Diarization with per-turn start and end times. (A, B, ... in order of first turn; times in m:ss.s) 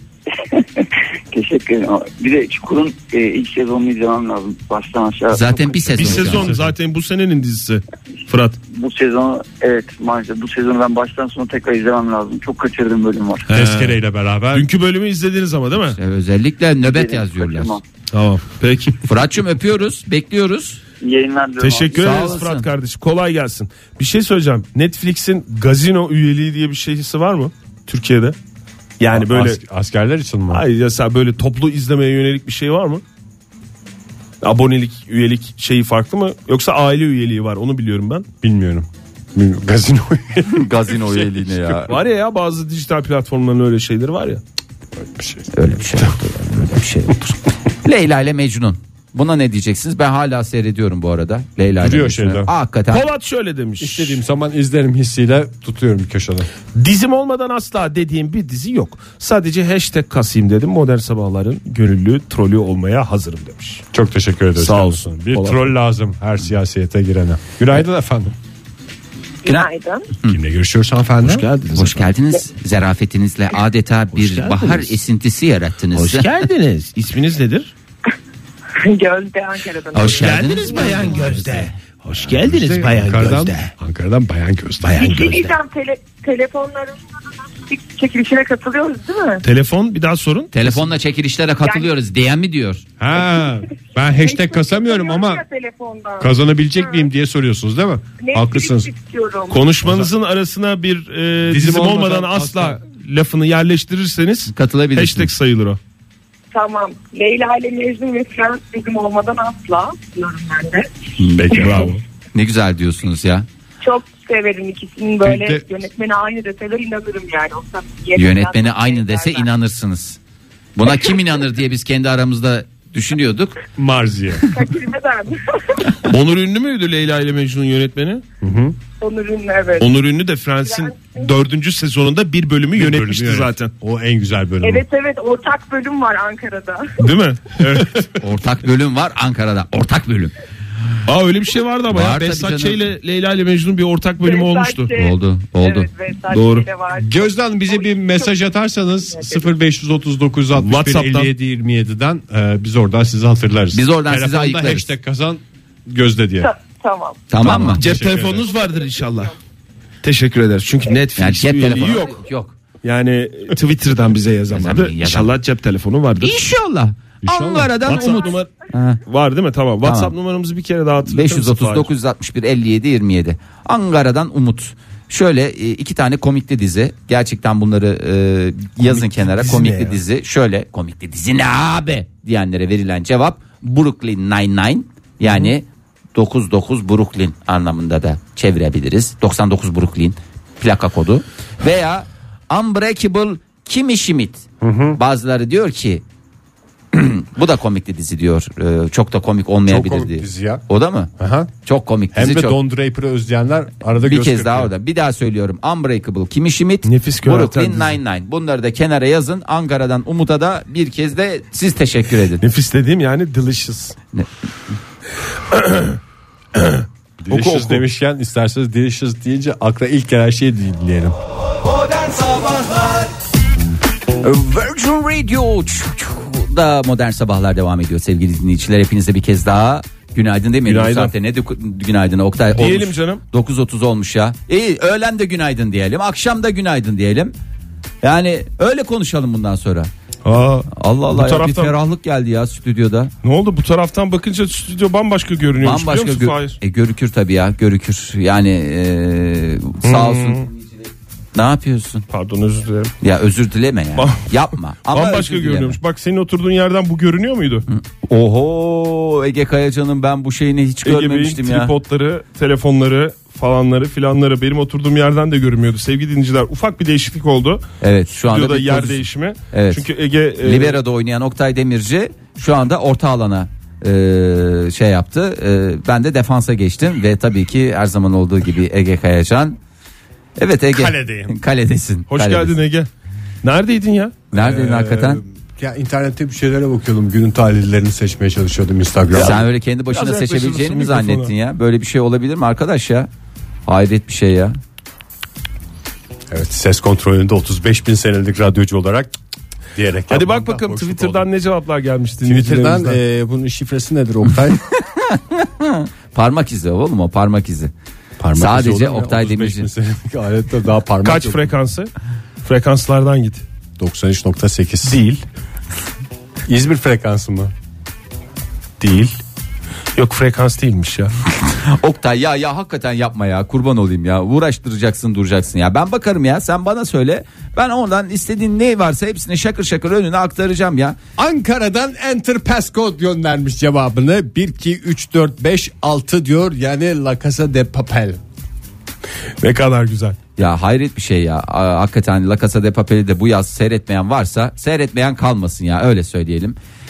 0:00.4-0:05.9 A
0:05.3-0:06.5 B
0:06.0-0:08.6 C
0:06.0-0:06.7 D
0:08.7-0:13.5 A
0:13.5-0:14.0 C
0:13.5-0:14.7 D
0:14.5-0:16.0 C
0:15.9-0:17.8 B
0:16.8-0:17.8 A
0:18.1-0:19.0 C
0:19.0-0:20.8 B
0:21.0-0:22.2 A
0:21.6-0:28.4 C
0:21.9-0:22.7 B
0:29.0-0:29.6 C
0:29.1-0:30.6 D
0:30.5-0:33.0 C
0:34.4-0:38.2 C
0:38.4-0:41.9 D
0:40.5-0:42.0 B
0:41.9-0:44.4 C
0:45.0-0:46.2 D
0:45.5-0:53.0 B
0:51.8-0:52.5 D
0:52.9-0:54.2 C
0:53.8-0:56.5 D
0:56.7-1:03.8 C
1:03.9-1:08.3 D
1:04.6-1:05.7 C
1:09.4-1:10.1 E
1:10.3-1:11.5 D
1:11.2-1:12.1 C
1:11.7-1:16.3 B
1:14.1-1:15.0 C
1:15.9-1:17.7 C
1:18.8-1:21.2 E
1:19.9-1:21.7 B
1:20.0-1:23.7 C
1:22.2-1:25.4 D
1:24.9-1:25.3 C
1:25.0-1:29.4 E
1:29.4-1:30.9 C
1:30.5-1:32.8 B
1:31.6-1:31.9 E
1:33.0-1:35.4 D
1:34.1-1:37.1 E
1:36.2-1:38.9 D
1:38.2-1:39.6 E
1:39.5-1:45.8 C
1:39.8-1:40.1 D
1:41.4-1:42.8 D
1:44.5-1:45.3 B
1:46.5-1:50.9 E
1:51.2-1:53.4 B
1:51.4-1:51.9 D
1:51.5-1:52.0 C
1:53.8-1:59.5 E
1:55.2-1:55.6 D
1:58.1-2:00.2 B
2:00.8-2:03.6 B
2:03.8-2:04.4 D
2:04.5-2:06.0 E
2:06.0-2:08.2 C
2:08.4-2:08.8 D
2:09.0-2:09.9 E
2:09.8-2:13.7 C
2:10.6-2:11.3 E
2:12.8-2:14.8 D
2:14.6-2:17.1 E
2:17.0-2:18.0 C
2:17.7-2:18.0 D
2:18.2-2:20.3 B
2:21.0-2:25.0 C
2:21.9-2:22.9 B
2:24.2-2:28.4 E
2:24.9-2:25.9 B
2:26.3-2:26.7 C
2:26.9-2:36.5 D
2:29.1-2:29.5 E
2:30.6-2:31.3 C
2:33.7-2:34.9 B
2:36.4-2:37.2 E
2:37.3-2:37.8 B
2:37.4-2:38.5 D
2:37.4-2:39.4 C
2:38.3-2:39.3 E
2:40.0-2:42.2 C
2:41.2-2:42.5 B
2:42.8-2:46.4 C
2:44.5-2:45.3 B
2:46.2-2:49.0 B
2:47.2-2:48.0 D
2:47.8-2:48.5 C
2:49.0-2:51.9 C
2:49.8-2:50.1 B
2:51.1-3:14.4 B
2:59.4-2:59.9 C
3:14.6-3:15.0 D
3:14.9-3:16.0 B
3:16.9-3:21.1 B
3:19.7-3:20.6 D
3:21.2-3:21.5 D
3:21.6-3:22.6 B
3:22.1-3:24.7 D
3:24.0-3:32.4 B
3:26.8-3:28.0 C
3:32.4-3:34.0 C
3:35.5-3:36.0 C
3:36.6-3:37.8 C
3:37.2-3:41.2 D
3:42.4-3:42.8 B
3:44.2-3:57.3 B
3:50.6-3:51.1 C
3:52.5-3:53.2 C
3:58.0-3:59.9 B
4:00.2-4:01.8 C
4:00.7-4:03.1 B
4:03.2-4:06.6 C
4:05.6-4:10.7 B
4:09.8-4:10.5 C
4:11.4-4:12.0 B
4:12.1-4:12.9 C
4:13.0-4:15.8 B
4:14.0-4:14.4 C
4:14.9-4:17.7 C
4:17.7-4:21.7 B
4:20.8-4:27.6 C
4:27.8-4:29.9 B
4:28.2-4:30.8 C
4:30.4-4:39.6 B
4:40.4-4:42.6 B
4:40.7-4:41.4 D
4:42.1-4:42.9 C
4:43.4-4:44.2 C
4:44.3-4:45.2 B
4:44.3-4:49.4 D
4:49.1-4:51.3 C
4:49.1-4:53.1 B
4:53.7-4:54.6 B
4:56.3-4:59.2 D
4:59.7-5:01.3 D
5:00.1-5:03.0 C
5:02.2-5:04.6 D
5:04.8-5:07.7 B
5:08.2-5:11.5 D
5:08.4-5:09.7 B
5:11.0-5:11.9 C
5:12.4-5:13.4 C
5:13.8-5:15.0 D
5:14.8-5:15.2 C
5:16.5-5:17.5 D
5:18.8-5:19.1 C
5:20.0-5:21.1 C
5:21.4-5:31.0 B
5:31.2-5:38.2 D
5:39.4-5:40.2 C
5:40.4-5:46.6 B